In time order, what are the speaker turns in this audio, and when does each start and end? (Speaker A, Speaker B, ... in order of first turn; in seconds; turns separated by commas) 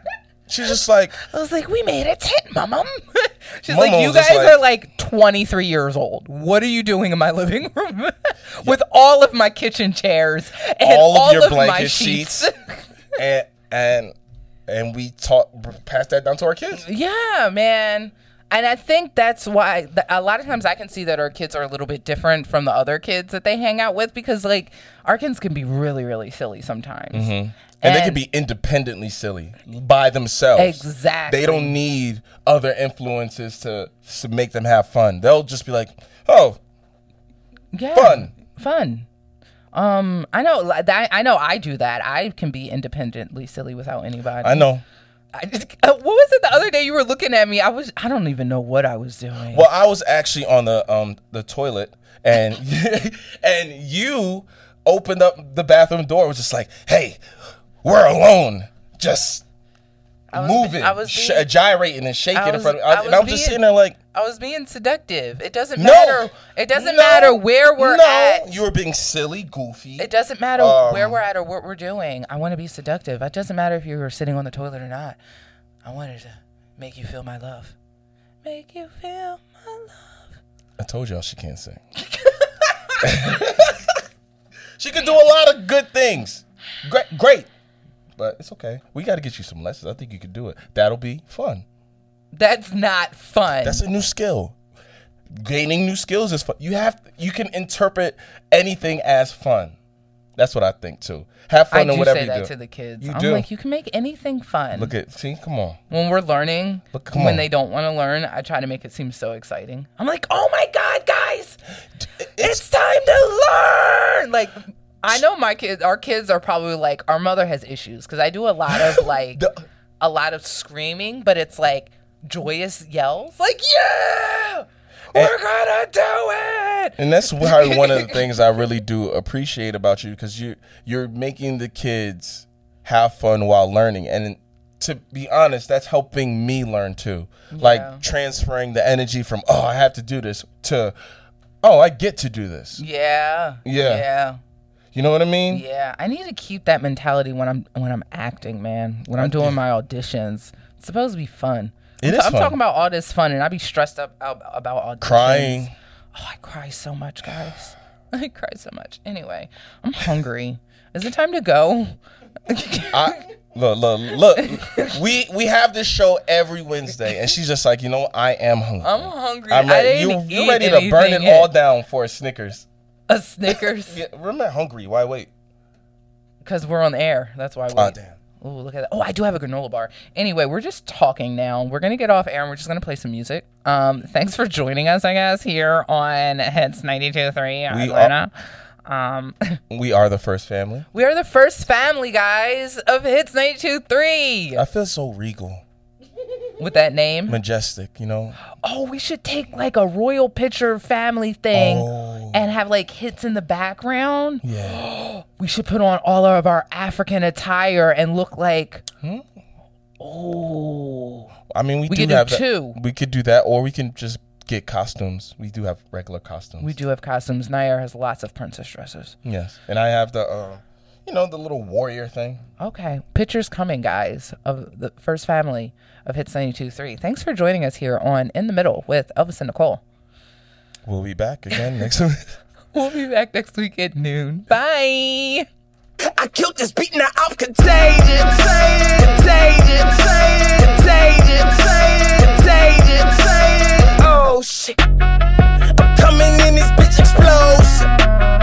Speaker A: 0.5-1.2, Speaker B: 1.2-12.8, Speaker A: 3.7-4.6, Speaker A: 10.8-12.5, Speaker A: 13.2-14.2, Speaker A: 14.7-16.8, Speaker B: 16.7-28.2, Speaker A: 27.1-36.6, Speaker B: 30.6-31.8, Speaker B: 37.7-39.1, Speaker A: 37.9-38.3, Speaker B: 39.7-44.7, Speaker A: 44.4-44.8, Speaker B: 45.3-49.7, Speaker A: 49.5-57.2, Speaker A: 57.8-59.4, Speaker B: 60.3-61.5, Speaker A: 60.3-64.0, Speaker B: 62.3-63.6, Speaker B: 64.1-68.5, Speaker A: 65.8-71.2, Speaker B: 70.0-75.2, Speaker B: 75.8-77.7, Speaker B: 78.4-80.4, Speaker A: 80.8-81.8, Speaker A: 83.0-84.0, Speaker A: 84.8-87.5, Speaker A: 88.2-91.7, Speaker B: 92.3-93.8, Speaker A: 93.6-94.5, Speaker A: 95.3-99.8, Speaker A: 100.4-103.5, Speaker B: 101.7-104.9, Speaker A: 104.7-105.8, Speaker B: 105.9-111.6, Speaker A: 106.9-107.5, Speaker A: 112.2-112.6, Speaker B: 112.4-119.4, Speaker A: 118.7-119.6, Speaker B: 120.0-128.2, Speaker A: 127.0-141.0, Speaker B: 137.5-138.0, Speaker A: 141.6-142.8, Speaker B: 142.8-144.4, Speaker A: 143.6-144.1, Speaker A: 144.9-145.6, Speaker B: 145.5-162.0, Speaker A: 149.1-149.6, Speaker A: 152.0-152.6, Speaker A: 155.0-155.8, Speaker B: 162.5-163.2, Speaker A: 162.9-172.7, Speaker B: 164.4-165.0, Speaker B: 168.8-171.5, Speaker B: 173.1-174.0, Speaker A: 173.5-175.3, Speaker B: 176.4-188.3, Speaker A: 177.7-178.2, Speaker A: 187.7-188.1, Speaker B: 188.9-189.6, Speaker A: 189.7-190.9, Speaker B: 190.9-194.6, Speaker A: 194.6-195.6, Speaker B: 196.6-197.4, Speaker A: 197.3-198.4, Speaker B: 198.6-208.8, Speaker A: 201.5-202.5, Speaker A: 204.4-204.8, Speaker A: 209.0-209.3, Speaker B: 210.0-211.3, Speaker A: 211.5-216.8, Speaker B: 211.9-212.8, Speaker B: 216.6-219.2, Speaker A: 219.2-222.4, Speaker B: 222.6-229.8, Speaker A: 230.8-232.3, Speaker B: 232.7-235.5, Speaker C: 236.1-244.8, Speaker C: 245.9-247.9